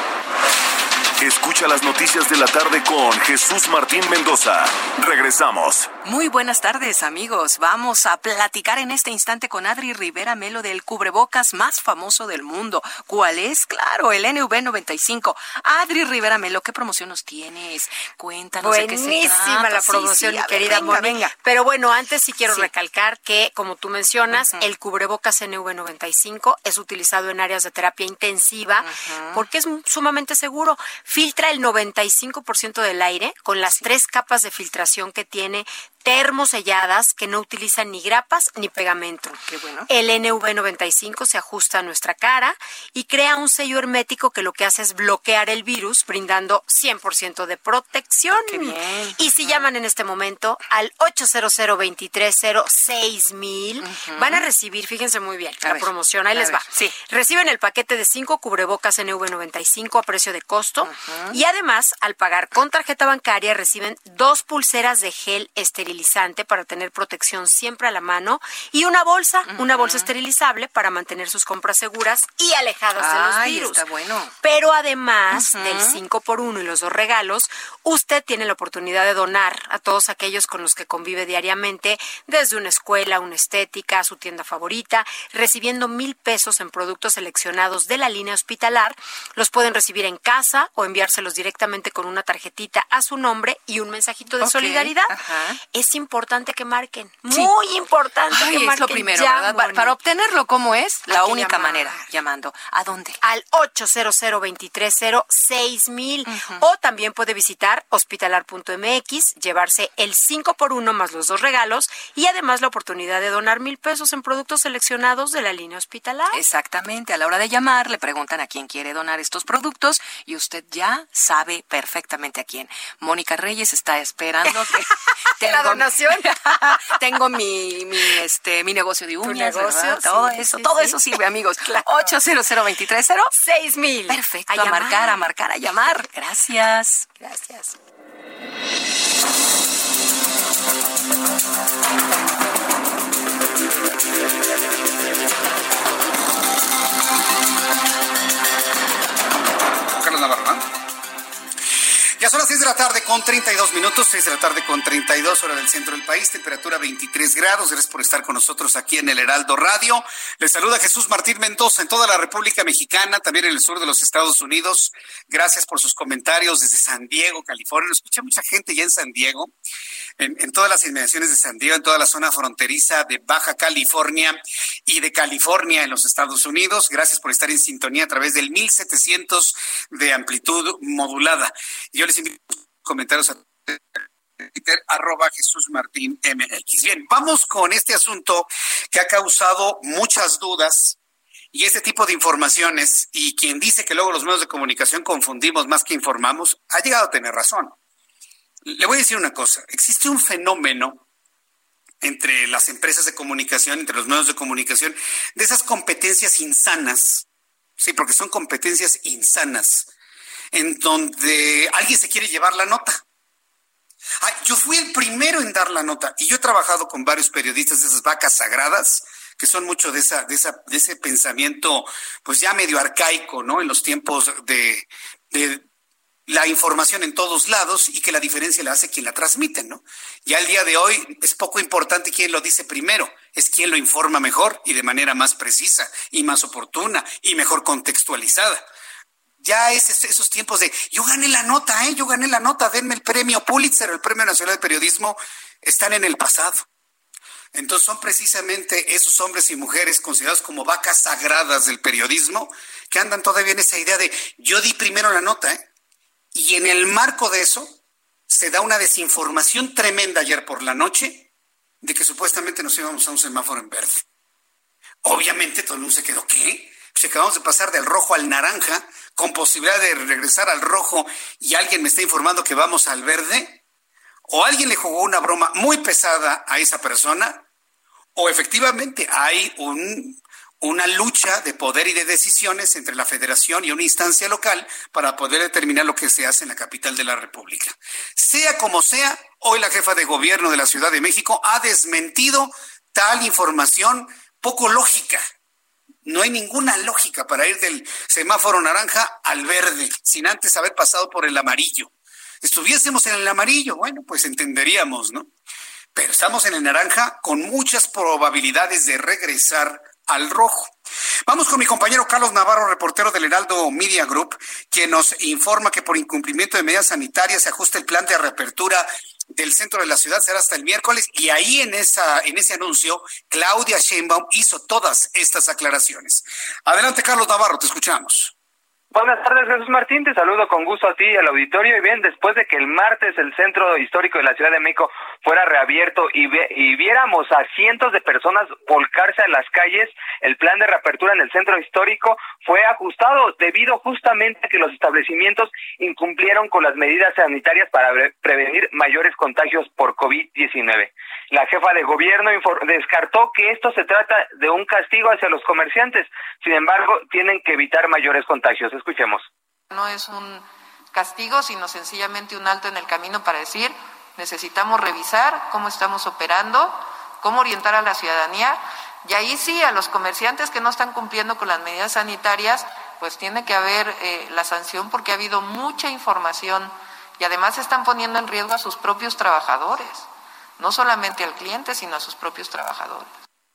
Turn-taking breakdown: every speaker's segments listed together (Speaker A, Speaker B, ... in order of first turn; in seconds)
Speaker A: 1.2-5.9
Speaker B: 6.0-21.3, 22.4-22.7, 24.3-24.7, 28.8-29.5, 33.6-33.9, 39.3-39.9, 48.3-49.7, 53.8-54.5, 55.6-57.0, 60.8-61.4, 69.5-70.1, 72.9-74.3, 75.3-76.0, 94.4-95.6, 97.2-97.5, 98.1-103.2, 106.2-106.7, 116.3-133.4, 134.1-137.6
Speaker C: 18.6-73.8, 74.4-95.2, 95.7-100.0, 101.1-102.1, 103.2-116.4, 125.4-126.3, 129.2-131.0, 133.4-135.2, 137.2-137.6
Speaker D: 149.9-150.6, 152.2-169.5, 170.2-191.0, 191.5-197.7, 198.6-201.0, 202.0-207.2, 207.8-209.9, 210.5-213.0, 214.2-225.6, 226.3-238.6, 239.4-246.7, 247.5-255.6, 256.3-257.7, 258.3-261.2, 261.8-264.0, 265.0-273.6, 274.3-277.4, 278.1-295.2, 296.0-301.9, 302.4-305.3, 305.9-310.7, 311.3-328.3
Speaker E: 328.9-359.3
Speaker F: 359.7-380.1, 380.6-383.1